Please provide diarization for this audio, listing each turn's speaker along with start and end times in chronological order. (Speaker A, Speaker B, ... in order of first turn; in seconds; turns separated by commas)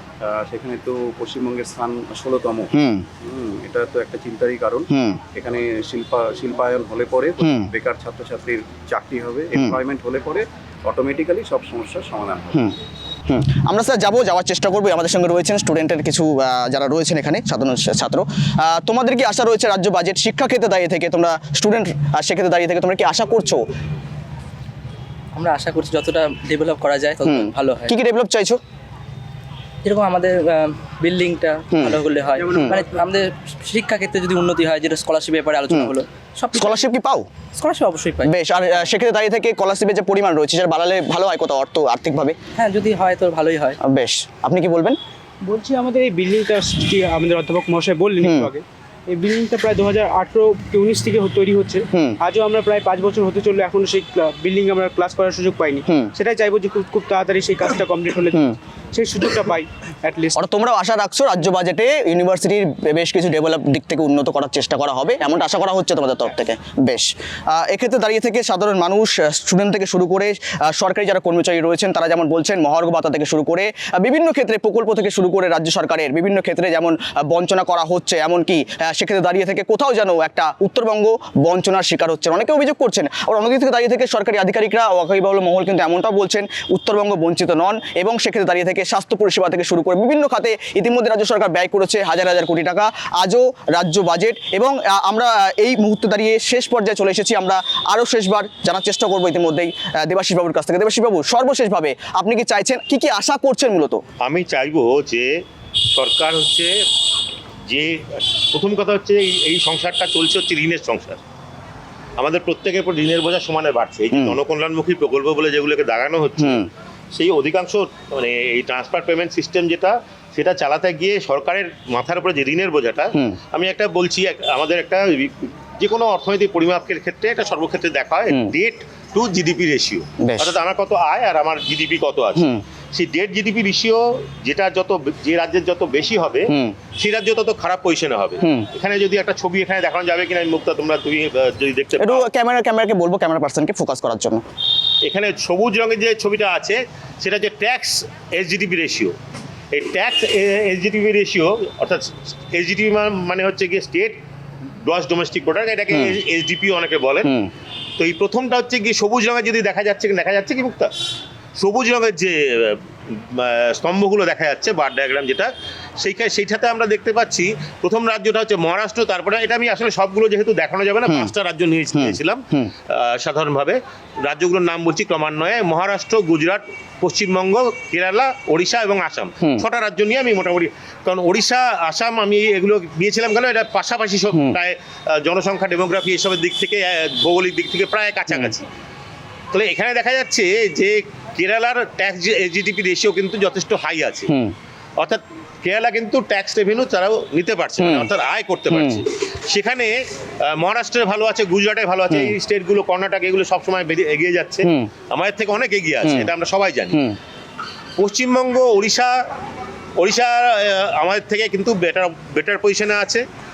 Speaker A: 0.2-12.7, Speaker B: 2.7-3.1, Speaker B: 4.9-5.2, Speaker B: 7.4-7.7, Speaker B: 13.3-23.7, Speaker C: 25.4-27.9, Speaker B: 27.2-28.6, Speaker C: 29.8-36.9, Speaker B: 31.7-32.8, Speaker D: 32.4-33.0, Speaker B: 36.5-37.2, Speaker C: 37.6-38.3, Speaker B: 38.2-42.4, Speaker C: 42.6-43.8, Speaker B: 43.9-45.0, Speaker D: 45.4-60.4, Speaker B: 48.2-48.5, Speaker B: 51.9-52.2, Speaker B: 55.9-56.1, Speaker B: 60.4-104.0, Speaker E: 104.2-105.3, Speaker E: 105.9-106.7, Speaker E: 107.7-111.2, Speaker E: 112.2-142.3, Speaker B: 114.1-114.4, Speaker B: 130.2-130.5, Speaker B: 132.4-132.6, Speaker B: 136.5-136.8, Speaker B: 138.4-138.7, Speaker B: 142.0-144.4, Speaker E: 145.0-149.1, Speaker E: 149.7-154.2, Speaker E: 154.8-157.3, Speaker B: 157.2-157.5, Speaker E: 158.0-160.9, Speaker E: 161.6-188.6, Speaker B: 171.1-171.3, Speaker B: 171.9-172.7, Speaker E: 189.5-194.3, Speaker E: 195.0-199.9, Speaker B: 197.8-198.1, Speaker B: 198.7-199.0, Speaker E: 200.5-207.0, Speaker B: 202.1-202.4, Speaker B: 204.7-204.9, Speaker B: 206.0-206.3, Speaker B: 206.9-207.2, Speaker E: 208.0-209.1, Speaker E: 210.0-213.2